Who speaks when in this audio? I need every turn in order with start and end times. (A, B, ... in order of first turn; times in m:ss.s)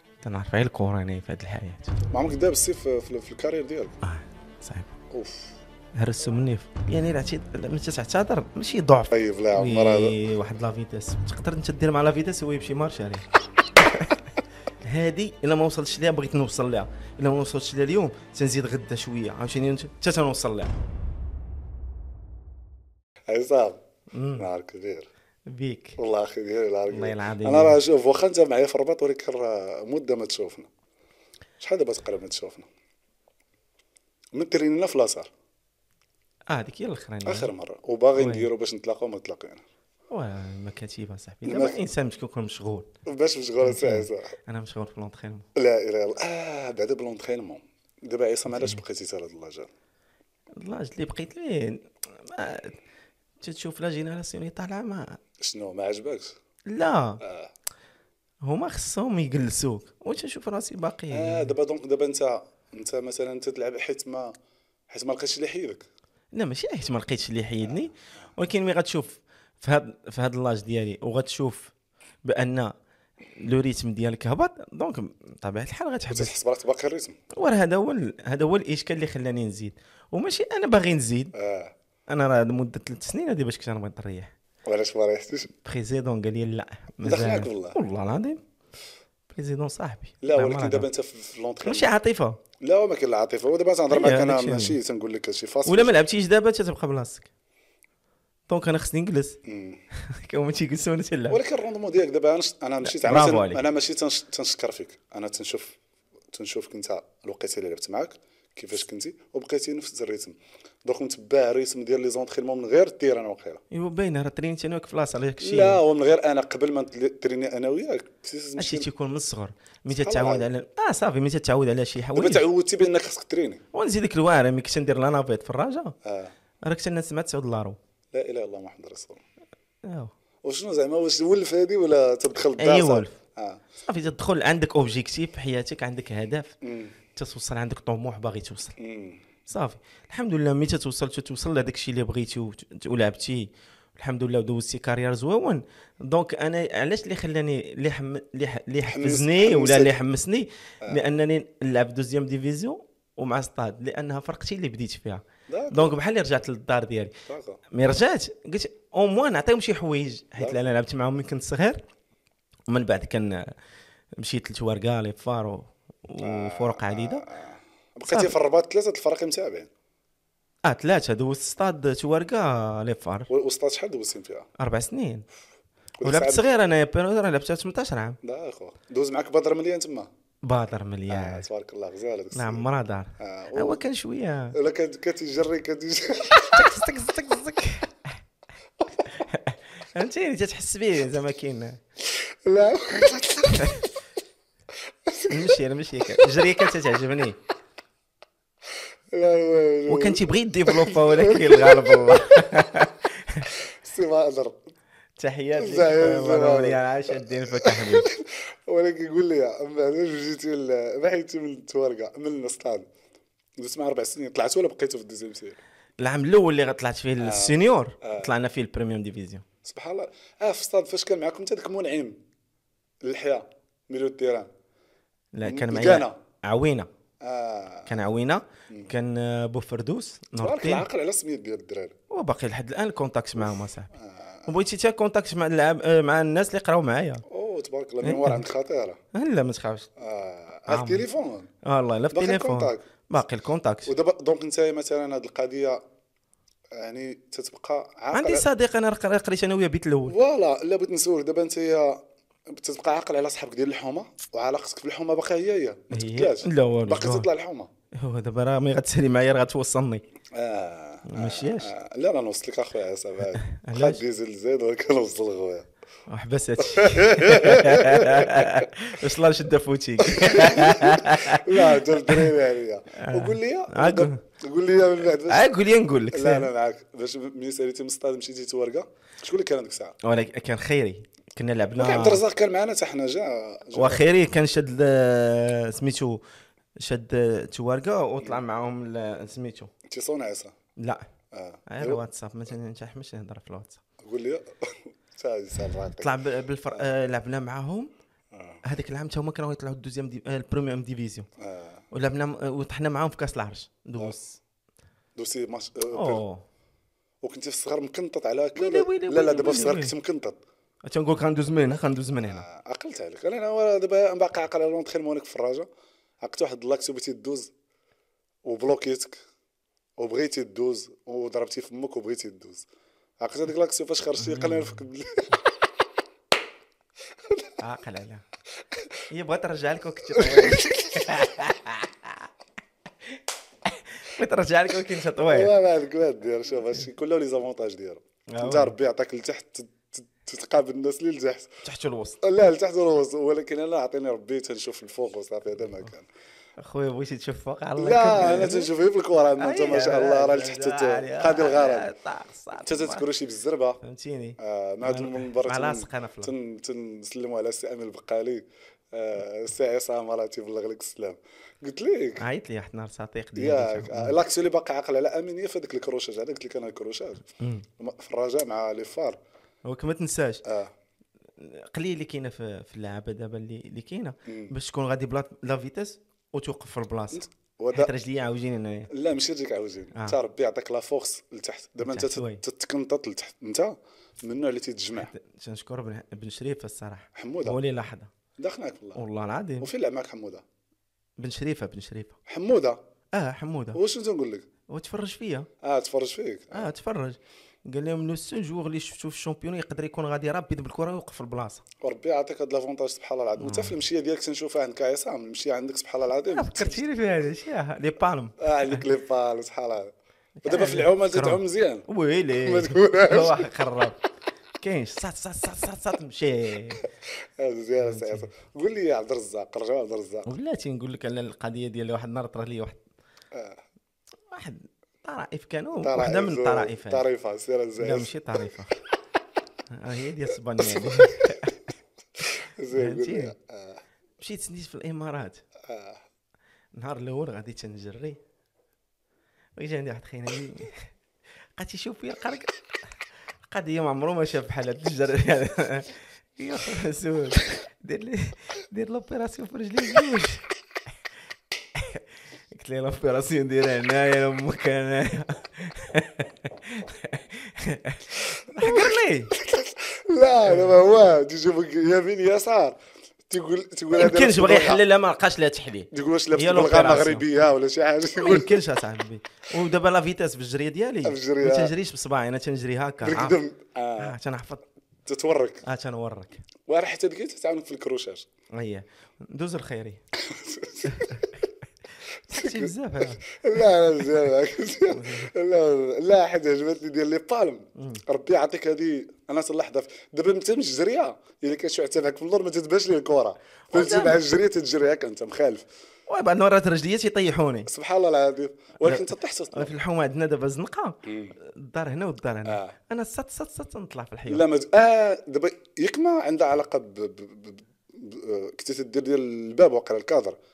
0:00.2-0:02.0 A
0:02.1-0:04.0 B
0:04.0-0:04.9 A
0:05.1-0:05.6 B
0:06.0-0:13.2 A
0:09.1-0:10.2 B
0:13.8-0:14.2 A
0:14.8-0:20.8 A
0:23.3-0:23.8 B
0:24.1-0:24.5 A
0:24.4-0:25.1 B
0:25.5-0:26.0 A
0:26.0-0:30.7 B
0:26.9-0:27.8 A
0:31.6-0:32.7 B
0:34.3-0:35.3 B
0:36.5-0:37.5 A
0:37.2-0:39.6 B
0:38.2-0:38.5 A
0:40.1-0:42.9 A
0:41.4-0:41.8 B
0:43.1-0:44.3 B
0:43.6-0:45.5 A
0:45.6-0:49.7 B
0:48.5-0:48.8 A
0:50.6-0:52.8 A
0:53.4-0:55.2 A
0:55.4-0:56.4 B
0:56.7-0:57.2 A
0:57.2-0:57.5 B
0:58.4-1:01.5 A
1:01.1-1:04.3 B
1:04.9-1:05.8 B
1:06.3-1:11.7 A
1:12.2-1:12.7 A
1:13.4-1:16.3 A
1:16.1-1:17.2 B
1:17.3-1:21.3 A
1:21.3-1:21.7 B
1:22.1-1:24.4 A
1:24.7-1:25.5 B
1:25.5-1:28.4 A
1:27.0-1:27.8 B
1:29.3-1:30.9 A
1:30.2-1:31.9 B
1:31.6-1:32.4 A
1:32.6-1:35.9 B
1:33.9-1:34.8 A
1:35.6-1:37.3 A
1:38.5-1:39.4 A
1:39.5-1:39.8 B
1:40.0-1:41.4 A
1:41.3-1:45.8 B
1:42.8-1:43.6 A
1:46.3-1:53.6 B
1:53.7-1:55.8 A
1:55.4-1:58.9 B
1:58.6-2:02.4 A
1:59.9-2:00.5 B
2:02.2-2:03.6 B
2:03.7-2:06.0 A
2:06.0-2:06.3 B
2:06.6-2:07.8 A
2:08.1-2:09.2 B
2:09.8-2:10.1 A
2:10.4-2:13.7 B
2:12.6-2:13.2 A
2:13.9-2:16.5 A
2:16.6-2:17.0 B
2:17.2-2:18.8 A
2:18.8-2:19.3 B
2:19.5-2:37.2 A
2:28.8-2:30.0 B
2:35.5-2:36.0 B
2:37.3-2:37.6 B
2:37.7-2:41.8 A
2:42.7-2:43.5 A
2:44.2-2:47.2 A
2:46.2-2:49.7 B
2:48.1-2:48.3 A
2:50.6-2:53.3 A
2:53.3-2:54.5 B
2:54.6-2:55.3 A
2:56.0-2:56.5 B
2:56.0-2:58.2 A
2:58.2-3:00.1 B
3:00.4-3:01.5 A
3:01.1-3:02.7 B
3:02.3-3:04.6 A
3:03.2-3:03.8 B
3:04.5-3:06.8 B
3:06.4-3:08.2 A
3:09.0-3:11.8 A
3:12.1-3:13.9 B
3:13.6-3:13.8 A
3:15.1-3:15.6 B
3:15.3-3:17.4 A
3:16.1-3:16.6 B
3:19.1-3:22.7 B
3:19.9-3:23.5 A
3:23.5-3:24.6 B
3:25.2-3:28.1 A
3:25.6-3:32.9 B
3:33.6-3:35.6 B
3:36.0-3:39.4 A
3:37.2-3:38.3 B
3:39.6-3:42.2 B
3:43.0-3:44.5 B
3:45.3-3:46.9 A
3:45.4-3:46.2 B
3:47.2-3:48.0 B
3:47.9-3:50.8 A
3:50.4-3:52.0 B
3:52.1-3:53.9 A
3:53.9-3:54.6 B
3:54.5-3:57.2 A
3:57.3-3:59.0 B
3:58.0-3:58.4 A
3:59.1-3:59.9 A
4:00.0-4:01.5 B
4:00.7-4:01.1 A
4:01.6-4:03.9 A
4:02.1-4:02.9 B
4:03.9-4:05.8 B
4:06.7-4:08.5 B
4:08.1-4:10.2 A
4:10.1-4:17.7 B
4:15.9-4:17.3 A
4:17.9-4:20.0 A
4:20.3-4:25.7 B
4:21.1-4:21.7 A
4:23.4-4:24.0 A
4:26.1-4:32.3 A
4:26.6-4:28.7 B
4:30.0-4:35.5 B
4:33.0-4:34.2 A
4:35.3-4:36.5 A
4:36.1-4:40.0 B
4:40.0-4:42.2 A
4:41.8-4:44.0 B
4:43.7-4:46.2 A
4:46.8-4:49.7 A
4:49.9-4:50.6 B
4:50.8-4:51.1 A
4:51.3-4:52.0 B
4:51.7-4:53.8 A
4:54.0-4:56.2 B
4:55.9-4:57.9 A
4:58.3-4:58.6 B
4:58.6-5:01.3 A
5:01.4-5:01.8 B
5:01.9-5:04.4 A
5:05.2-5:06.2 B
5:05.9-5:06.4 A
5:07.2-5:10.4 B
5:08.6-5:09.9 A
5:10.8-5:12.5 A
5:12.3-5:15.7 B
5:16.2-5:17.5 B
5:18.5-5:19.2 B
5:20.0-5:22.7 B
5:23.2-5:25.4 B
5:24.2-5:24.9 A
5:27.3-5:27.6 B
5:27.6-5:28.2 A
5:29.1-5:32.3 A
5:30.1-5:31.4 B
5:33.6-5:35.6 A
5:35.2-5:41.6 B
5:38.3-5:38.8 A
5:41.6-5:42.2 A
5:42.2-5:46.1 B
5:46.6-5:48.7 A
5:47.8-5:51.9 B
5:49.4-5:53.1 A
5:52.6-5:53.8 B
5:53.8-5:56.3 A
5:54.4-6:02.2 B
6:02.2-6:04.2 A
6:03.4-6:07.3 B
6:07.4-6:07.7 A
6:07.8-6:09.2 B
6:09.6-6:10.4 A
6:10.4-6:10.7 B
6:11.4-6:18.9 A
6:14.3-6:14.5 B
6:17.1-6:17.9 B
6:18.9-6:25.1 B
6:21.8-6:22.4 A
6:25.0-6:28.1 A
6:27.2-6:27.6 B
6:28.4-6:29.0 B
6:29.0-6:29.7 A
6:29.6-6:30.4 B
6:31.2-6:32.2 A
6:32.3-6:32.8 B
6:33.1-6:33.8 A
6:33.8-6:34.5 B
6:34.7-6:35.5 A
6:35.6-6:36.7 B
6:36.5-6:41.6 A
6:41.8-6:46.8 B
6:43.4-6:43.8 A
6:46.3-6:48.8 A
6:48.4-6:49.9 B
6:50.4-6:54.0 A
6:50.4-6:51.9 B
6:52.4-6:53.6 B
6:54.6-6:56.8 A
6:57.4-7:00.3 B
6:57.8-6:58.2 A
7:00.3-7:02.8 A
7:03.3-7:03.6 B
7:04.3-7:07.0 A
7:05.8-7:08.1 B
7:07.8-7:08.8 A
7:09.7-7:11.6 A
7:10.6-7:11.6 B
7:12.2-7:13.8 B
7:12.7-7:13.3 A
7:14.2-7:15.4 A
7:15.6-7:16.0 B
7:16.7-7:18.2 A
7:19.6-7:20.9 A
7:21.6-7:22.5 A
7:23.5-7:30.5 A
7:31.8-7:39.3 A
7:38.4-7:42.8 B
7:40.5-7:40.7 A
7:43.3-7:44.8 B
7:44.0-7:47.2 A
7:45.9-7:48.6 B
7:48.2-7:53.4 A
7:51.0-7:51.7 B
7:53.0-7:54.2 B
7:54.0-7:54.6 A
7:55.1-7:55.6 B
7:55.6-7:56.4 A
7:56.7-7:58.3 B
7:58.5-8:00.0 A
8:00.2-8:01.4 B
8:00.9-8:01.3 A
8:02.3-8:15.7 B
8:02.3-8:03.2 A
8:04.9-8:05.3 A
8:07.8-8:08.0 A
8:13.7-8:14.2 A
8:16.1-8:17.7 A
8:17.7-8:19.7 B
8:18.8-8:24.4 A
8:21.0-8:21.4 B
8:22.5-8:22.8 B
8:24.3-8:30.4 B